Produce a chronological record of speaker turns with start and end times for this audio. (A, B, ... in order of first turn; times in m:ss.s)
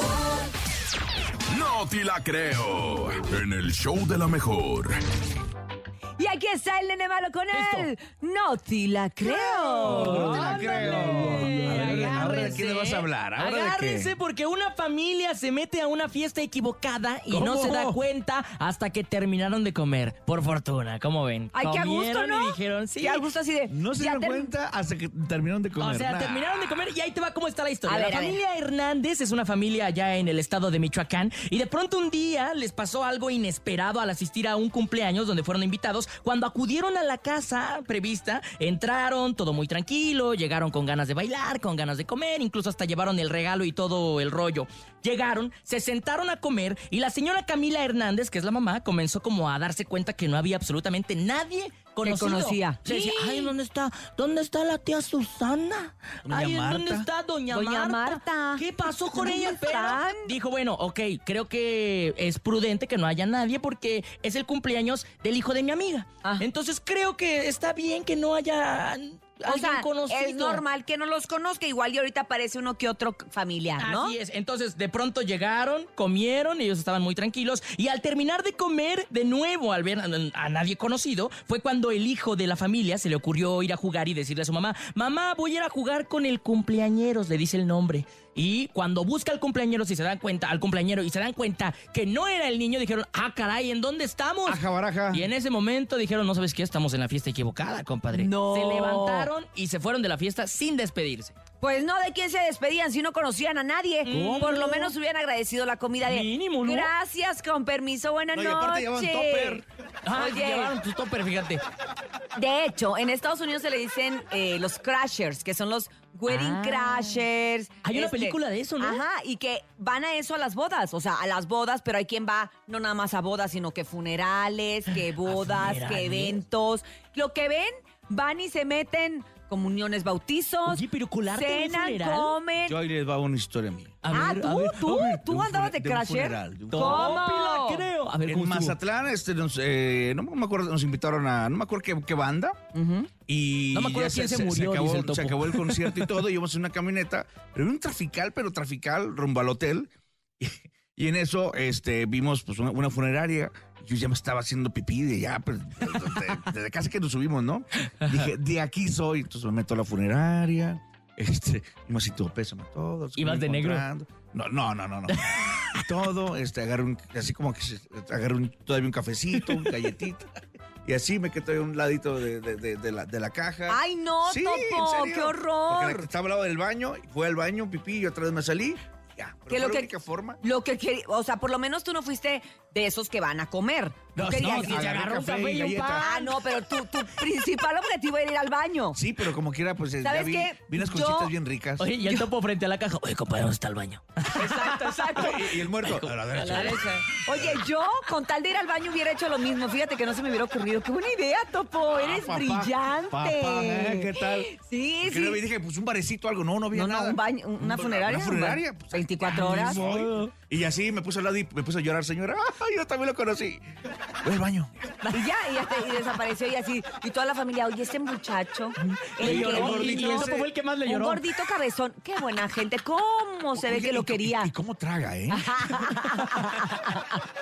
0:01.5-0:05.0 A
0:06.2-0:12.6 B
0:07.5-0:07.9 C
0:09.2-0:23.3 C
0:09.8-0:14.1 D
0:17.3-0:18.0 D
0:21.5-0:24.5 B
0:23.7-0:26.7 D
0:25.8-1:10.6 C
0:27.9-0:28.4 B
0:52.0-0:53.5 B
0:56.3-0:57.1 D
0:57.5-1:00.3 B
1:09.5-1:14.2 B
1:13.8-1:34.6 C
1:34.5-1:35.3 D
1:35.1-1:41.3 C
1:38.1-1:39.3 B
1:41.6-1:50.7 B
1:44.0-1:44.9 C
1:44.1-1:44.5 D
1:46.1-1:46.9 C
1:48.3-1:49.6 D
1:50.0-1:51.6 C
1:52.4-2:10.8 B
1:56.3-1:57.2 C
1:57.8-1:59.0 C
2:05.2-2:06.4 C
2:10.7-2:12.4 C
2:11.3-2:12.8 B
2:12.6-2:14.0 D
2:14.0-2:15.1 C
2:14.1-2:17.9 B
2:14.8-2:17.2 D
2:16.7-2:18.8 C
2:18.3-2:22.6 D
2:22.7-2:23.1 B
2:23.3-2:50.3 D
2:23.7-2:26.2 C
2:38.0-2:38.3 C
2:43.2-2:43.8 C
2:45.1-2:45.8 C
2:49.4-2:49.7 C
2:50.8-3:00.4 D
2:53.7-2:56.1 B
2:59.5-2:59.9 B
3:00.4-3:05.0 B
3:04.2-3:06.3 D
3:04.4-3:06.3 C
3:06.0-3:09.0 B
3:09.0-3:11.9 D
3:10.0-3:11.3 B
3:11.8-3:16.9 C
3:14.3-3:15.6 B
3:15.1-3:17.6 D
3:16.4-3:25.4 B
3:21.9-3:24.5 D
3:25.0-3:33.6 D
3:26.7-3:29.8 B
3:29.3-3:30.3 C
3:34.2-3:34.9 D
3:35.0-3:40.3 B
3:39.2-3:40.5 D
3:39.2-3:41.2 C
3:40.9-3:44.5 B
3:43.6-3:46.0 D
3:45.3-3:47.2 B